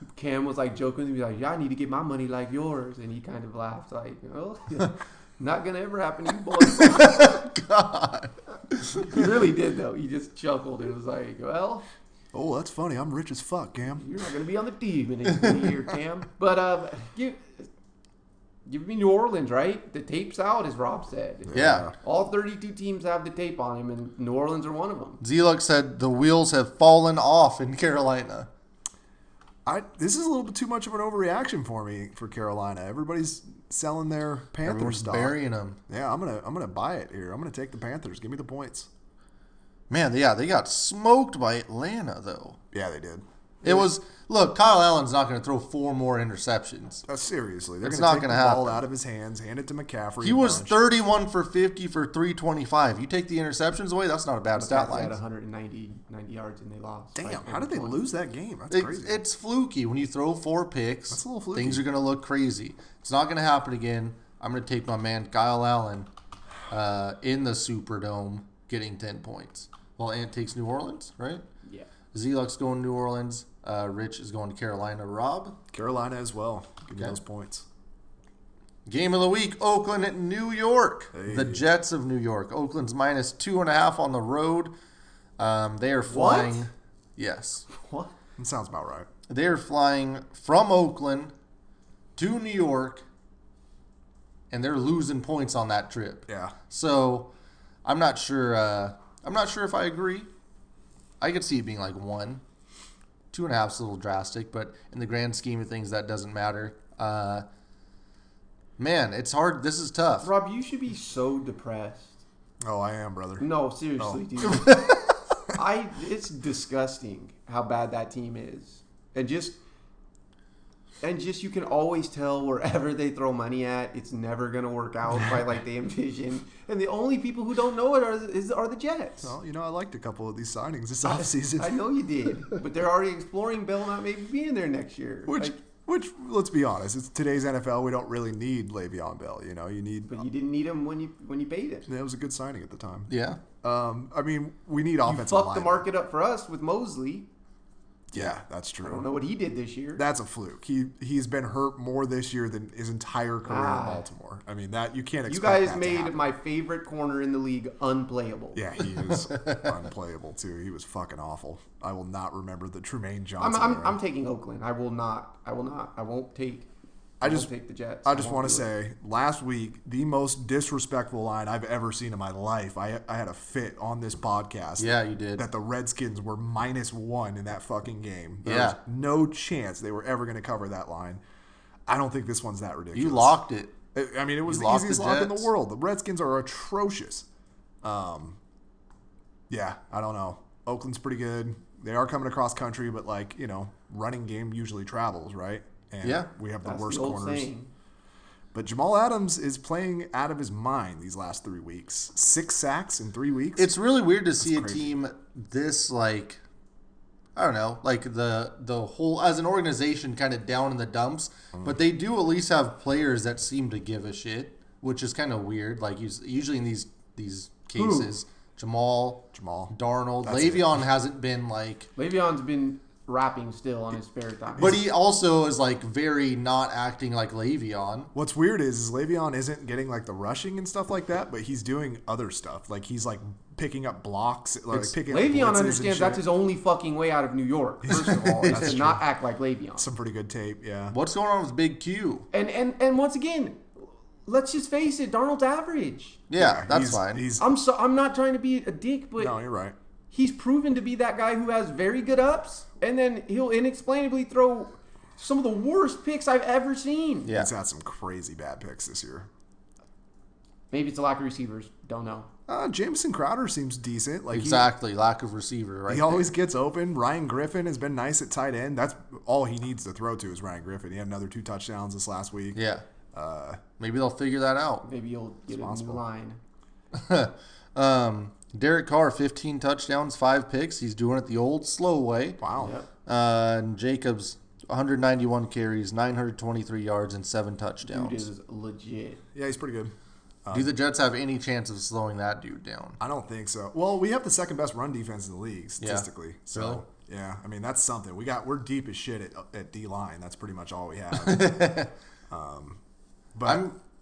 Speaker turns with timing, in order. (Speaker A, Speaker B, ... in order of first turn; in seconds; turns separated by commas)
Speaker A: 0.1-7.4, Speaker B: 6.6-9.2, Speaker A: 8.9-11.8, Speaker C: 12.3-14.0, Speaker A: 13.9-17.7, Speaker A: 18.6-25.2, Speaker C: 21.5-21.9, Speaker B: 21.5-21.9, Speaker B: 25.2-28.5, Speaker C: 29.6-35.4, Speaker B: 34.6-35.8, Speaker C: 35.9-38.9, Speaker B: 39.9-42.6, Speaker C: 42.7-43.8, Speaker B: 43.6-47.0, Speaker C: 47.0-50.8, Speaker B: 47.8-48.8, Speaker B: 50.2-55.1, Speaker A: 54.5-58.0, Speaker C: 57.1-59.2, Speaker B: 58.7-66.1, Speaker C: 61.1-61.9, Speaker B: 66.7-71.4, Speaker B: 72.1-75.6, Speaker C: 75.7-77.7, Speaker B: 78.8-84.7, Speaker C: 81.1-81.6, Speaker B: 85.4-87.7, Speaker A: 86.1-86.7, Speaker A: 87.7-88.1, Speaker C: 88.4-89.1, Speaker B: 89.3-91.3, Speaker B: 92.2-93.0, Speaker B: 94.5-97.3, Speaker C: 96.3-96.6, Speaker B: 97.8-100.3, Speaker B: 101.2-102.4, Speaker B: 103.3-107.5, Speaker B: 108.8-110.3, Speaker A: 110.2-112.2, Speaker C: 112.6-113.5, Speaker A: 113.4-115.0, Speaker A: 115.5-119.6, Speaker A: 121.0-129.3, Speaker C: 129.2-131.8, Speaker A: 131.0-135.6, Speaker C: 135.2-140.2, Speaker A: 140.1-141.9, Speaker C: 141.9-143.1, Speaker B: 143.1-143.4, Speaker C: 143.6-145.8, Speaker A: 145.1-147.3, Speaker C: 148.1-149.1, Speaker A: 148.8-150.0, Speaker C: 149.9-156.2, Speaker A: 153.4-154.1, Speaker A: 155.3-158.6, Speaker C: 158.5-164.0, Speaker B: 159.1-159.7, Speaker A: 163.4-166.7, Speaker C: 167.2-167.5, Speaker A: 167.2-168.7, Speaker C: 168.0-181.2, Speaker B: 174.8-175.4, Speaker B: 178.4-178.8, Speaker C: 181.9-183.4, Speaker B: 182.9-183.7, Speaker C: 183.9-187.2, Speaker B: 184.4-185.5, Speaker C: 187.8-188.4, Speaker C: 189.5-197.5, Speaker B: 196.0-196.3, Speaker A: 196.6-197.7, Speaker C: 198.5-203.7, Speaker B: 203.6-206.4, Speaker C: 204.4-204.9, Speaker B: 207.3-221.9, Speaker A: 217.7-218.1, Speaker C: 219.3-220.8, Speaker A: 221.9-224.8, Speaker B: 224.6-228.1, Speaker C: 228.1-236.2, Speaker A: 234.7-239.9, Speaker C: 237.8-239.0, Speaker B: 237.9-238.9, Speaker C: 239.8-240.9, Speaker B: 240.9-242.3, Speaker A: 242.3-246.2, Speaker B: 246.3-247.2, Speaker C: 246.3-247.4, Speaker A: 247.4-249.4, Speaker C: 249.2-249.8, Speaker A: 250.1-257.3, Speaker B: 257.2-257.5, Speaker C: 257.3-259.3, Speaker A: 260.7-262.3, Speaker C: 262.5-264.7, Speaker B: 264.3-266.3, Speaker C: 265.9-272.6, Speaker B: 272.5-272.8, Speaker C: 273.1-273.6, Speaker B: 273.8-274.9, Speaker A: 274.8-276.4, Speaker C: 275.5-276.0, Speaker B: 276.9-282.4, Speaker C: 282.4-282.7, Speaker A: 282.6-282.9, Speaker B: 283.1-288.3, Speaker A: 287.8-289.2, Speaker C: 289.3-289.9, Speaker C: 290.4-290.7, Speaker B: 290.5-293.0, Speaker C: 293.0-302.8, Speaker B: 295.8-296.8, Speaker B: 301.2-301.9, Speaker C: 303.3-303.6, Speaker B: 303.4-303.8